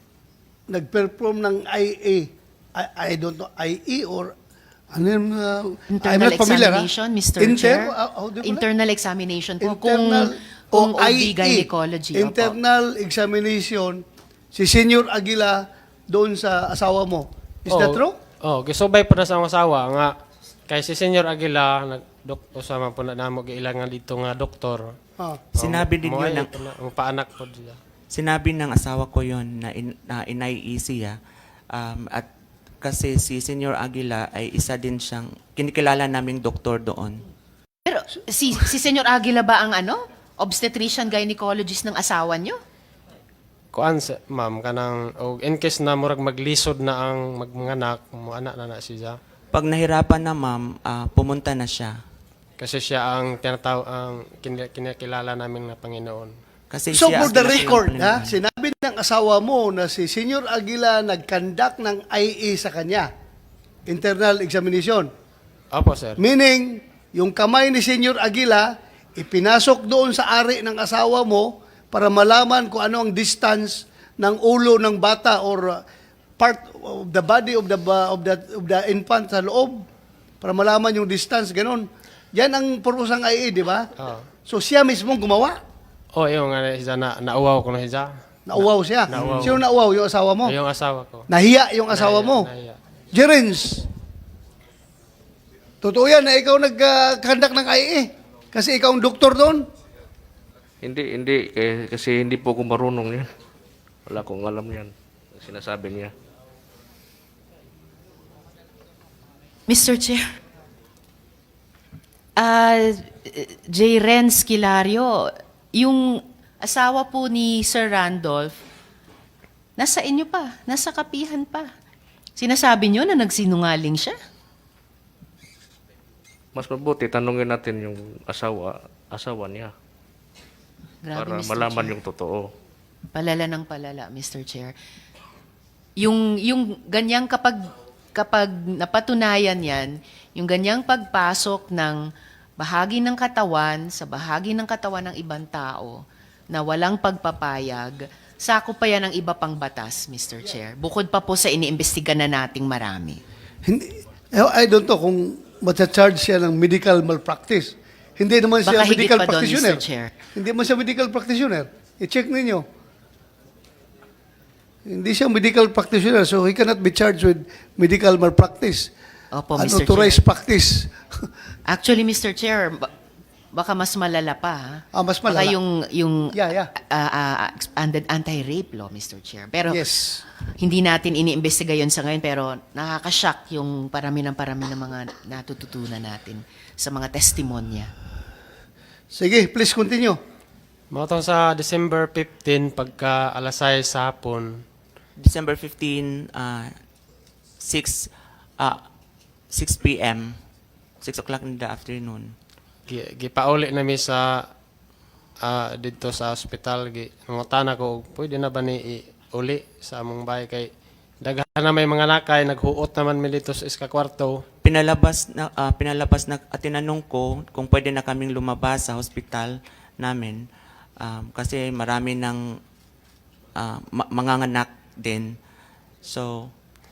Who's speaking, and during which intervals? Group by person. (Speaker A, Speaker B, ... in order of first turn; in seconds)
Speaker A: 0.7-4.3, 4.9-8.6, 9.6-14.0, 14.5-18.1, 56.9-63.1, 63.9-65.1, 66.2-75.8, 76.4-79.8, 80.4-83.9, 84.5-85.6, 88.5-90.5, 91.3-92.5, 93.1-93.9, 95.8-99.7, 153.7-162.6, 164.9-168.9, 169.6-171.0, 174.9-175.6, 176.3-176.7, 179.7-180.2, 189.1-190.2
Speaker B: 5.9-12.5, 37.9-42.6, 109.7-110.2, 112.4-118.6, 119.8-121.7, 122.4-124.2, 131.0-132.0, 133.1-134.7, 136.0-142.0, 142.6-146.0, 146.5-153.2, 158.7-160.1, 169.3-170.2, 171.7-172.9, 173.5-179.8, 180.6-187.9
Speaker C: 17.7-20.1, 20.7-24.9, 25.6-27.8, 43.7-49.2, 52.6-56.3, 65.7-66.2, 84.0-84.3, 86.2-88.1, 89.1-89.6, 90.5-91.3, 91.9-92.8, 190.9-194.6, 202.9-204.5, 205.4-210.7, 211.2-214.4
Speaker D: 25.6-26.5, 28.1-31.2, 31.7-32.3, 32.8-37.2, 49.5-52.0, 56.7-58.4, 195.2-196.7, 197.6-198.8, 199.5-200.4, 201.0-202.3, 214.6-220.4, 221.0-222.6, 223.6-225.3, 226.0-226.5
Speaker E: 100.8-103.3, 104.1-106.1, 126.6-129.7, 131.2-132.4